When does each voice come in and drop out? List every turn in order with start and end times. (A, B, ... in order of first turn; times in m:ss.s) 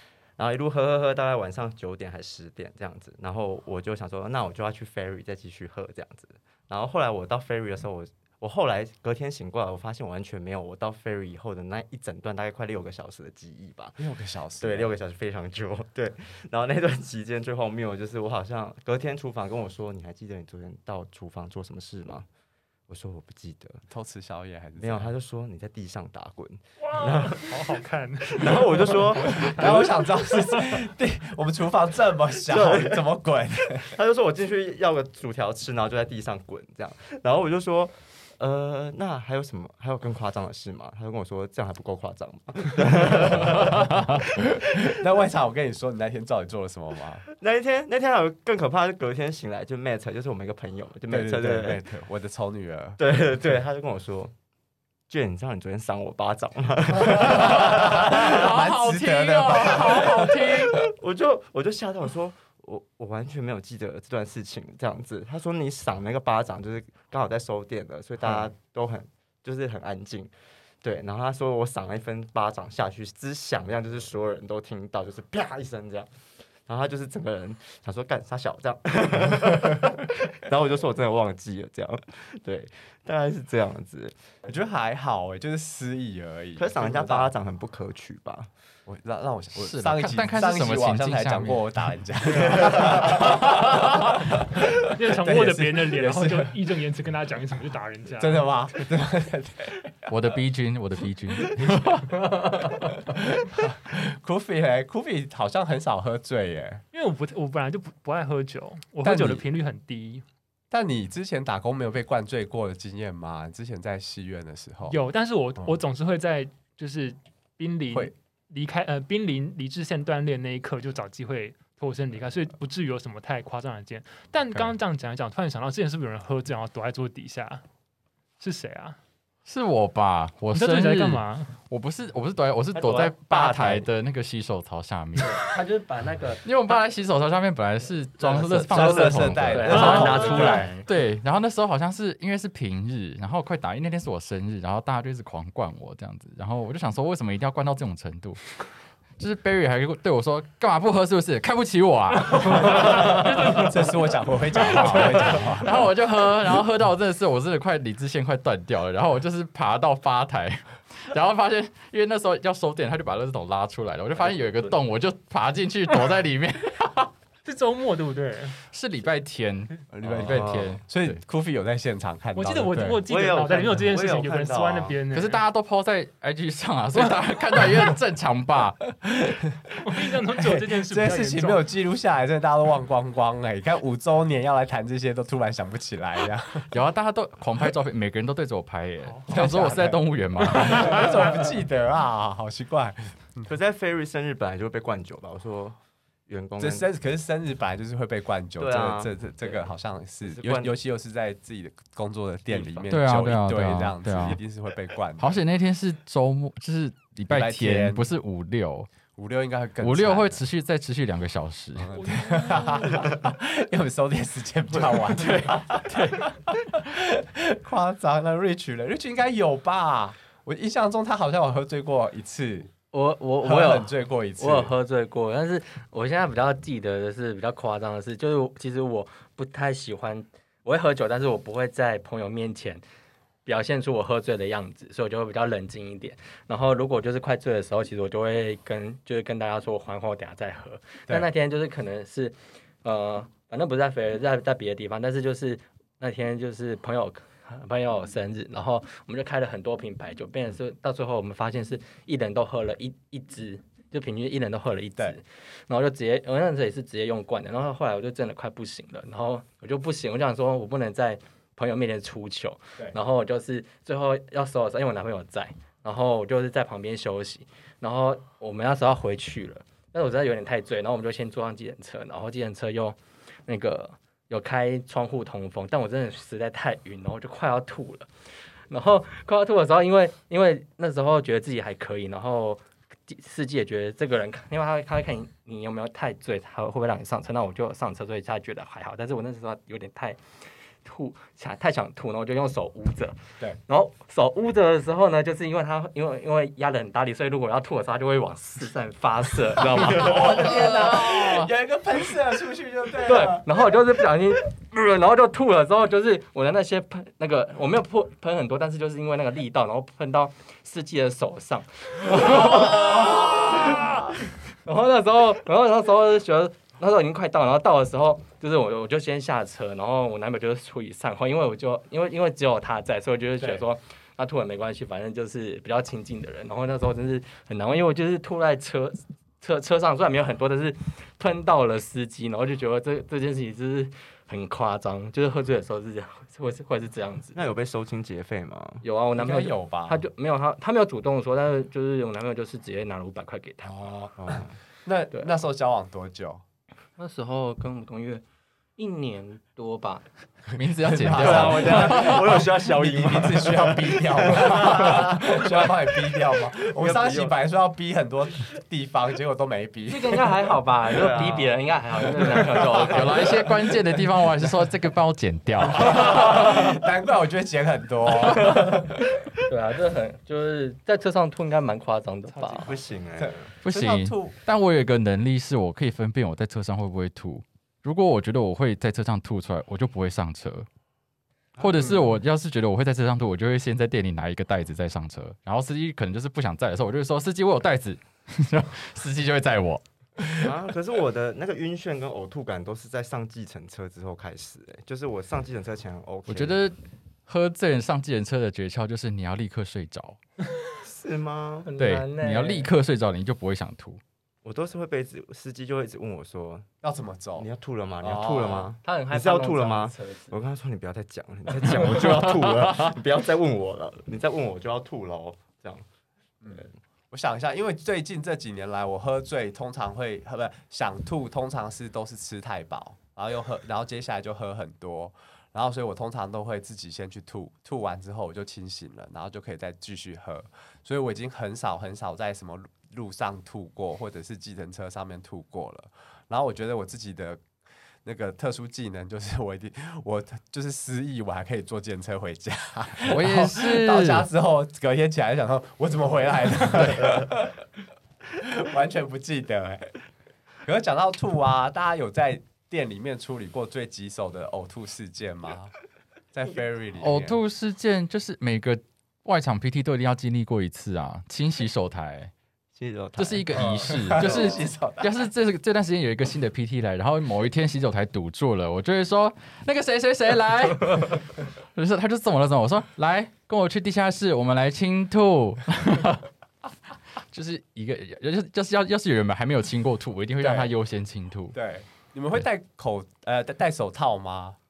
0:00.4-0:14.0 A
0:14.0-0:15.0 B
0:14.6-0:22.3 A
0:22.9-0:23.8 A
0:23.9-0:25.1 B
0:24.8-0:27.8 A
0:26.8-0:30.8 C
0:28.3-0:29.9 A
0:29.4-0:33.9 B
0:32.4-0:33.0 A
0:33.9-0:45.0 A
0:43.0-0:47.2 B
0:47.4-0:51.8 A
0:51.1-0:53.0 B
0:53.0-0:54.3 A
0:55.1-0:58.4 A
0:57.0-1:00.8 B
0:57.2-1:00.9 D
1:00.7-1:16.1 A
1:08.2-1:08.5 B
1:16.7-1:24.1 A
1:24.4-1:27.3 B
1:26.6-1:28.5 A
1:28.9-1:36.5 B
1:29.5-1:31.6 D
1:32.3-1:33.3 A
1:34.8-1:38.8 C
1:38.2-1:39.9 B
1:40.1-1:42.7 D
1:41.5-1:46.8 B
1:46.9-1:50.2 C
1:49.0-1:49.4 B
1:50.7-1:55.0 B
1:54.9-2:07.6 C
2:08.4-2:09.0 C
2:09.4-2:15.4 D
2:10.5-2:11.5 C
2:12.7-2:13.9 A
2:15.2-2:16.5 E
2:16.4-2:28.6 D
2:18.2-2:20.8 E
2:18.7-2:20.7 B
2:19.7-2:20.1 C
2:29.2-2:33.9 D
2:32.5-2:35.8 B
2:34.6-2:47.1 D
2:47.4-2:48.6 C
2:48.7-2:51.2 D
2:49.9-2:53.0 B
2:50.2-2:50.8 A
2:52.3-2:55.4 C
2:53.0-2:55.0 A
2:55.1-2:58.9 D
2:59.0-3:06.7 B
2:59.8-3:01.6 C
3:06.7-3:11.2 D
3:09.0-3:09.3 C
3:09.3-3:13.5 B
3:13.4-3:16.8 A
3:16.6-3:25.4 B
3:18.6-3:19.7 A
3:20.2-3:20.7 A
3:22.5-3:22.9 A
3:22.9-3:24.4 D
3:25.2-3:28.9 D
3:27.3-3:28.0 B
3:29.1-3:30.4 B
3:29.8-3:31.9 D
3:31.8-3:42.7 B
3:31.9-3:33.1 C
3:35.0-3:36.3 D
3:42.9-3:52.8 E
3:43.4-3:44.7 B
3:53.4-4:38.1 E
4:38.7-4:50.2 E
4:50.8-5:00.5 E
4:59.6-5:03.7 B
5:00.0-5:01.5 D
5:03.0-5:14.1 E
5:14.6-5:37.5 E
5:37.3-5:38.8 A
5:38.8-5:44.2 E
5:39.2-5:40.0 B
5:44.2-5:44.6 A
5:44.8-5:46.4 B
5:47.0-5:48.2 E
5:48.8-5:50.0 E
5:50.5-5:52.5 D
5:50.8-6:00.4 B
5:51.1-5:55.9 A
5:56.6-5:57.3 A
5:59.9-6:03.4 E
6:00.9-6:01.5 A
6:02.8-6:06.4 D
6:05.7-6:09.0 B
6:08.4-6:08.8 E
6:09.4-6:12.7 E
6:12.3-6:12.8 C
6:12.6-6:13.5 A
6:13.2-6:14.3 B
6:13.6-6:20.7 D
6:21.6-6:22.0 A
6:21.6-6:30.4 D
6:30.4-6:36.6 A
6:36.3-6:36.8 D
6:37.3-6:40.2 D
6:40.8-6:41.7 A
6:41.6-6:42.7 E
6:41.8-6:44.0 D
6:44.4-6:46.7 A
6:46.8-6:47.5 B
6:47.4-6:55.8 A
6:48.0-6:48.7 B
6:48.8-6:50.3 E
6:52.0-6:52.9 D
6:56.4-7:17.4 B
7:18.0-7:27.6 B
7:23.0-7:24.3 D
7:28.3-7:29.9 B
7:30.6-7:35.7 B
7:36.3-7:37.4 B
7:37.0-7:42.3 D
7:42.8-7:44.6 A
7:43.2-7:56.3 D
7:43.5-7:45.2 B
7:57.3-8:01.6 D
8:00.4-8:00.7 B
8:01.5-8:04.6 B